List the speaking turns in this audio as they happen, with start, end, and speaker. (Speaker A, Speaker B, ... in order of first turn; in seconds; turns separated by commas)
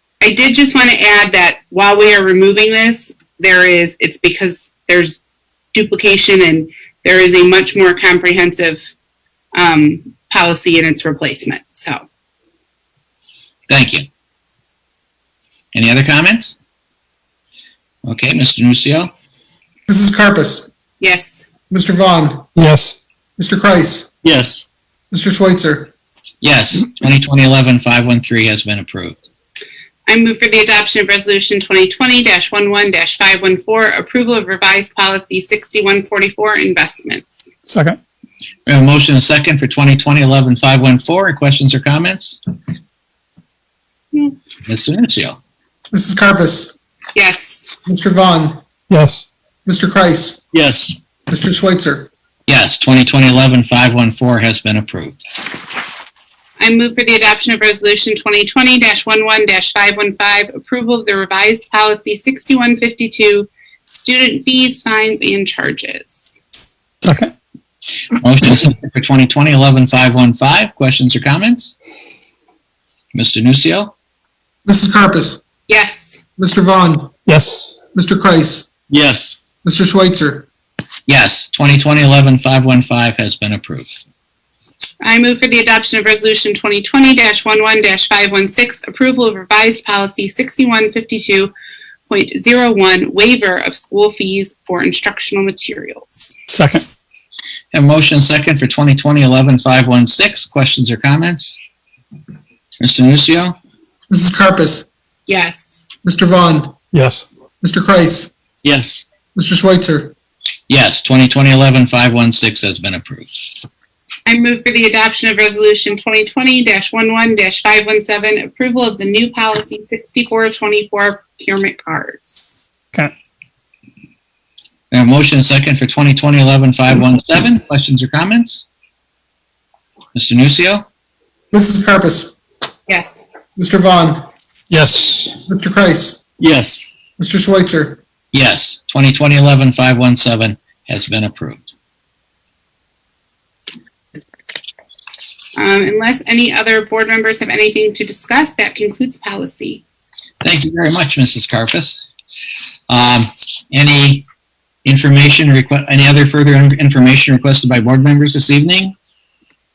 Speaker A: 0.2-5.2, Speaker A: 5.7-8.9, Speaker A: 9.6-12.0, Speaker B: 13.7-14.1, Speaker B: 15.7-16.6, Speaker B: 18.1-19.1, Speaker C: 19.9-20.7, Speaker A: 21.0-21.4, Speaker C: 21.7-22.5, Speaker D: 22.6-23.0, Speaker C: 23.4-24.1, Speaker E: 24.2-24.6, Speaker C: 25.1-25.9, Speaker B: 26.4-29.2, Speaker A: 30.1-37.5, Speaker D: 37.7-38.0, Speaker B: 38.7-42.4, Speaker B: 44.7-45.4, Speaker C: 45.9-46.8, Speaker A: 47.1-47.7, Speaker C: 47.9-48.6, Speaker D: 48.9-49.3, Speaker C: 49.7-50.4, Speaker E: 50.5-51.0, Speaker C: 51.3-52.1, Speaker B: 52.5-55.2, Speaker A: 56.6-66.4, Speaker D: 67.0-67.3, Speaker B: 68.2-71.8, Speaker B: 73.1-73.9, Speaker C: 74.7-75.4, Speaker A: 75.7-76.2, Speaker C: 76.4-77.1, Speaker D: 77.3-77.8, Speaker C: 78.0-78.7, Speaker E: 78.9-79.4, Speaker C: 79.6-80.5, Speaker B: 81.1-84.0, Speaker A: 85.0-91.5, Speaker A: 92.1-96.4, Speaker D: 96.5-96.8, Speaker B: 97.7-101.6, Speaker B: 102.8-103.5, Speaker C: 104.1-104.9, Speaker A: 105.3-105.8, Speaker C: 106.0-106.8, Speaker D: 106.9-107.3, Speaker C: 107.6-108.3, Speaker E: 108.6-109.0, Speaker C: 109.3-110.1, Speaker B: 110.7-113.3, Speaker A: 114.3-122.5, Speaker B: 124.9-128.7, Speaker B: 130.2-130.9, Speaker C: 131.5-132.3, Speaker A: 132.9-133.3, Speaker C: 133.6-134.3, Speaker D: 134.7-135.3, Speaker C: 135.5-136.2, Speaker E: 136.4-136.9, Speaker C: 137.2-138.0, Speaker B: 138.3-141.7, Speaker A: 145.6-149.8, Speaker B: 150.4-152.0, Speaker B: 152.9-154.2, Speaker B: 154.8-158.9